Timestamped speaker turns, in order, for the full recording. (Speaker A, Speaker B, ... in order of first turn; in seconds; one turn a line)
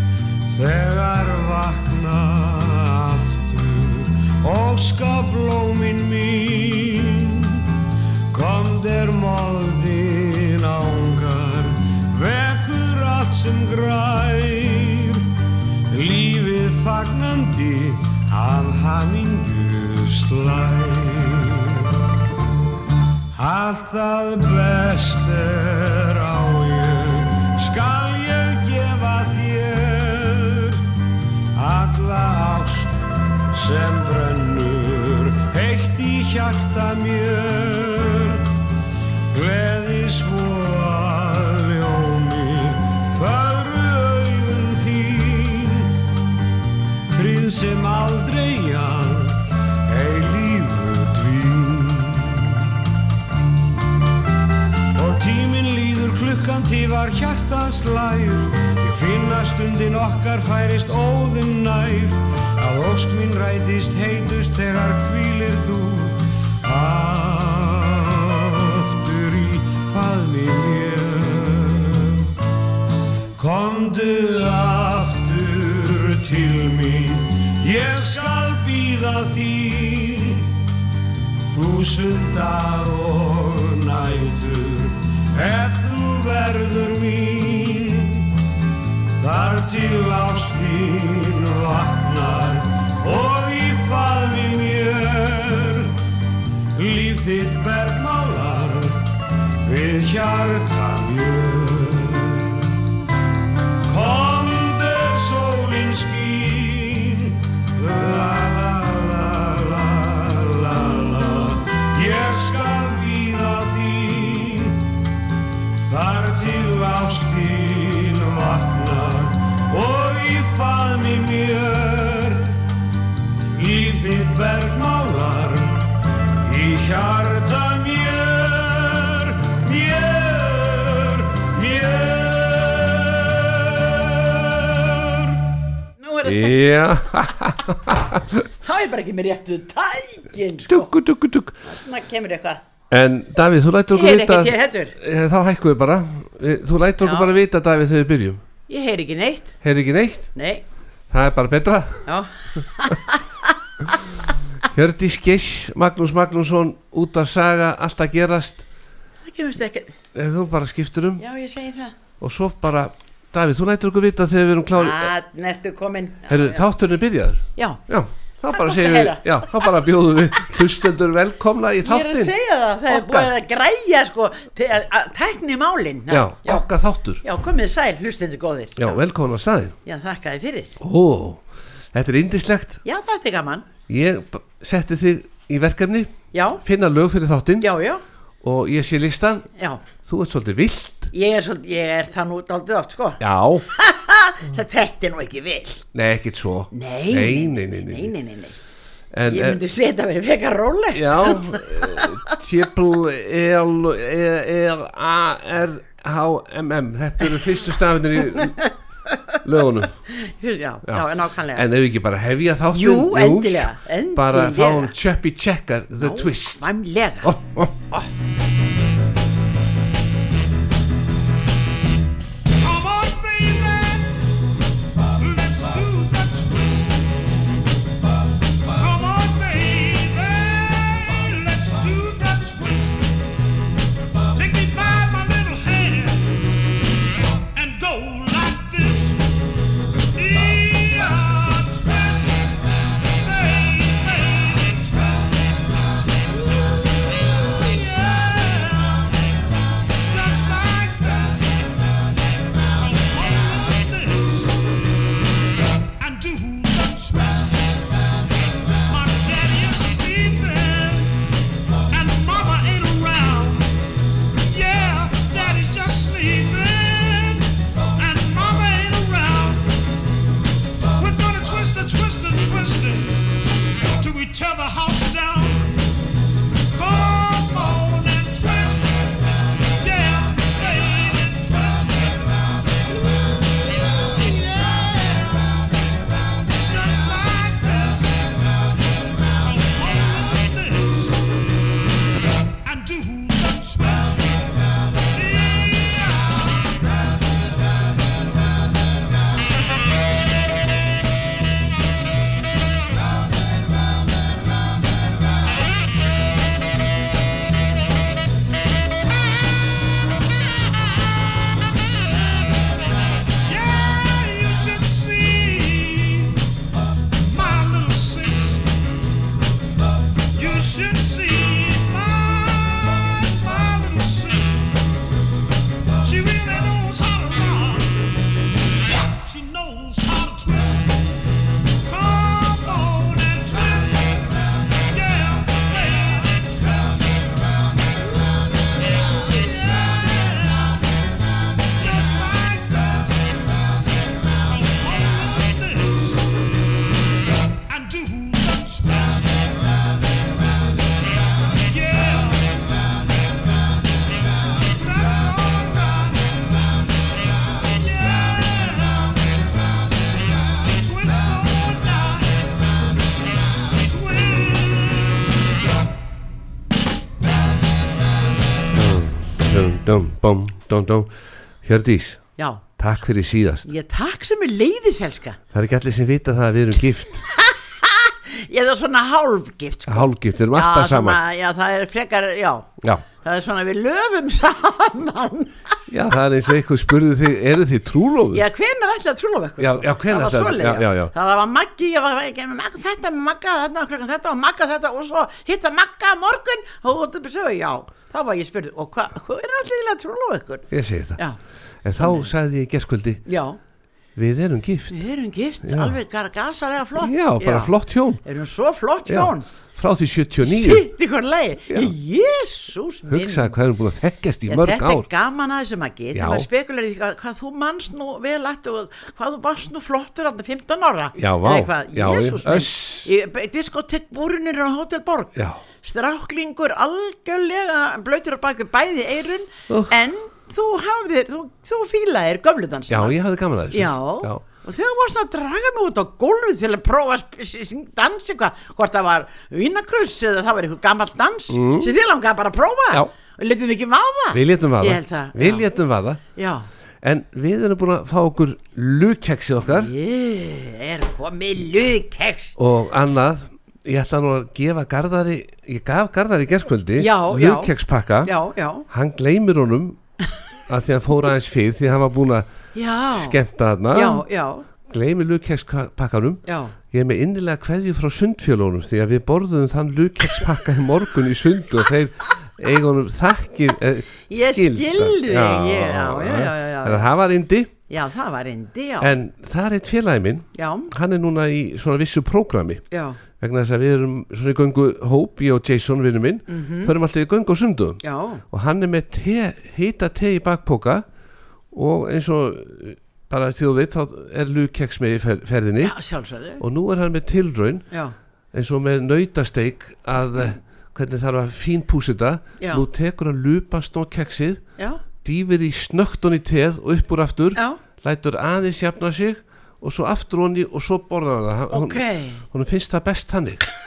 Speaker A: 0.5-7.7
Speaker A: 8.3-15.3
Speaker A: 15.9-21.9
Speaker A: 23.3-30.8
Speaker A: 31.5-32.9
Speaker A: 33.5-38.5
Speaker A: 39.3-45.9
Speaker A: 47.1-52.7
Speaker A: 54.9-72.2
Speaker A: 73.4-80.6
Speaker A: 81.5-88.3
Speaker A: 89.2-96.0
Speaker A: 96.8-99.0
Speaker A: 99.7-102.6
Speaker A: 103.8-114.9
Speaker A: 115.8-122.5
Speaker A: 123.5-125.8
Speaker A: 126.4-135.4
Speaker B: 136.0-136.6
Speaker C: 136.2-138.4
Speaker B: 138.6-140.9
Speaker C: 140.7-141.6
Speaker B: 141.6-142.6
Speaker C: 142.9-148.4
Speaker B: 143.9-144.9
Speaker B: 147.0-147.3
Speaker B: 148.7-149.6
Speaker C: 149.6-150.3
Speaker B: 150.3-150.6
Speaker C: 151.1-152.1
Speaker B: 152.1-154.0
Speaker C: 154.7-158.6
Speaker B: 159.2-159.9
Speaker C: 160.1-161.2
Speaker B: 161.2-161.9
Speaker C: 162.2-165.1
Speaker B: 164.8-166.6
Speaker C: 166.3-172.3
Speaker B: 167.6-167.8
Speaker B: 168.4-169.7
Speaker B: 171.8-176.6
Speaker C: 172.9-173.3
Speaker C: 176.1-177.2
Speaker B: 177.2-179.0
Speaker C: 178.8-179.8
Speaker B: 179.8-180.8
Speaker C: 180.8-182.8
Speaker B: 182.8-183.7
Speaker C: 183.9-187.7
Speaker B: 186.3-186.6
Speaker B: 187.6-188.0
Speaker C: 188.4-191.1
Speaker B: 189.6-189.8
Speaker B: 191.1-195.9
Speaker C: 193.2-193.7
Speaker C: 195.9-198.1
Speaker B: 196.7-198.6
Speaker C: 199.1-199.6
Speaker B: 199.3-202.1
Speaker C: 200.9-208.6
Speaker B: 208.4-209.3
Speaker C: 209.4-209.9
Speaker B: 210.1-211.7
Speaker C: 210.9-216.7
Speaker B: 212.7-214.9
Speaker B: 216.0-217.3
Speaker C: 217.2-218.1
Speaker D: 222.6-224.1
Speaker D: 225.2-227.0
Speaker D: 228.8-232.9
Speaker D: 234.4-236.2
Speaker D: 237.6-239.0
Speaker D: 243.5-244.3
Speaker A: 248.2-248.8
Speaker D: 250.5-251.1
Speaker D: 253.0-253.9
Speaker D: 256.1-257.6
Speaker D: 259.0-261.1
Speaker D: 262.0-263.7
Speaker D: 264.5-267.4
Speaker D: 268.1-269.7
Speaker D: 271.0-273.1
Speaker D: 274.1-275.7
Speaker D: 276.8-278.9
Speaker D: 279.8-281.6
Speaker D: 287.0-287.8
Speaker D: 289.7-290.9
Speaker D: 313.6-314.2
Speaker D: 314.9-316.1
Speaker D: 317.3-318.6
Speaker D: 321.0-323.6
Speaker D: 326.1-327.4
Speaker D: 329.3-330.5
Speaker D: 332.0-333.5
Speaker A: 339.5-340.5
Speaker A: 345.7-346.2
Speaker D: 347.8-348.4
Speaker D: 357.8-358.2
Speaker C: 368.7-371.1
Speaker C: 371.6-373.7
Speaker B: 372.4-372.6
Speaker B: 373.7-375.4
Speaker C: 375.5-377.2
Speaker B: 377.3-385.8
Speaker C: 379.9-381.2
Speaker C: 385.9-388.4
Speaker B: 388.3-401.4
Speaker C: 389.6-391.1
Speaker C: 400.7-401.2
Speaker C: 401.8-403.2
Speaker B: 402.0-402.3
Speaker B: 403.3-403.6
Speaker C: 404.1-405.0
Speaker B: 404.9-407.7
Speaker C: 405.6-405.9
Speaker C: 407.0-408.2
Speaker B: 408.2-409.4
Speaker C: 409.1-410.8
Speaker B: 410.4-413.5
Speaker C: 413.1-415.1
Speaker B: 414.5-433.1
Speaker C: 416.1-416.5
Speaker C: 421.2-423.1
Speaker C: 425.4-425.6
Speaker C: 432.9-434.4
Speaker B: 433.7-445.6
Speaker C: 441.5-441.9
Speaker C: 444.3-446.2
Speaker B: 446.3-446.7
Speaker C: 447.0-449.9
Speaker B: 449.7-452.5
Speaker C: 452.6-458.3
Speaker B: 457.0-457.7
Speaker B: 458.2-458.8
Speaker C: 458.9-460.0
Speaker C: 460.7-462.5
Speaker B: 462.7-463.4
Speaker C: 463.1-464.2
Speaker B: 463.9-464.6
Speaker C: 464.8-477.7
Speaker B: 466.4-466.7
Speaker B: 474.3-477.1
Speaker B: 477.9-479.1
Speaker C: 479.0-488.0
Speaker B: 480.5-480.9
Speaker B: 482.9-483.2
Speaker B: 486.5-486.9
Speaker B: 488.0-488.4
Speaker C: 488.5-491.1
Speaker C: 491.7-495.9
Speaker B: 495.8-496.6
Speaker C: 496.6-497.9
Speaker C: 498.5-513.6
Speaker B: 502.6-502.8
Speaker B: 507.5-507.8
Speaker B: 511.7-512.4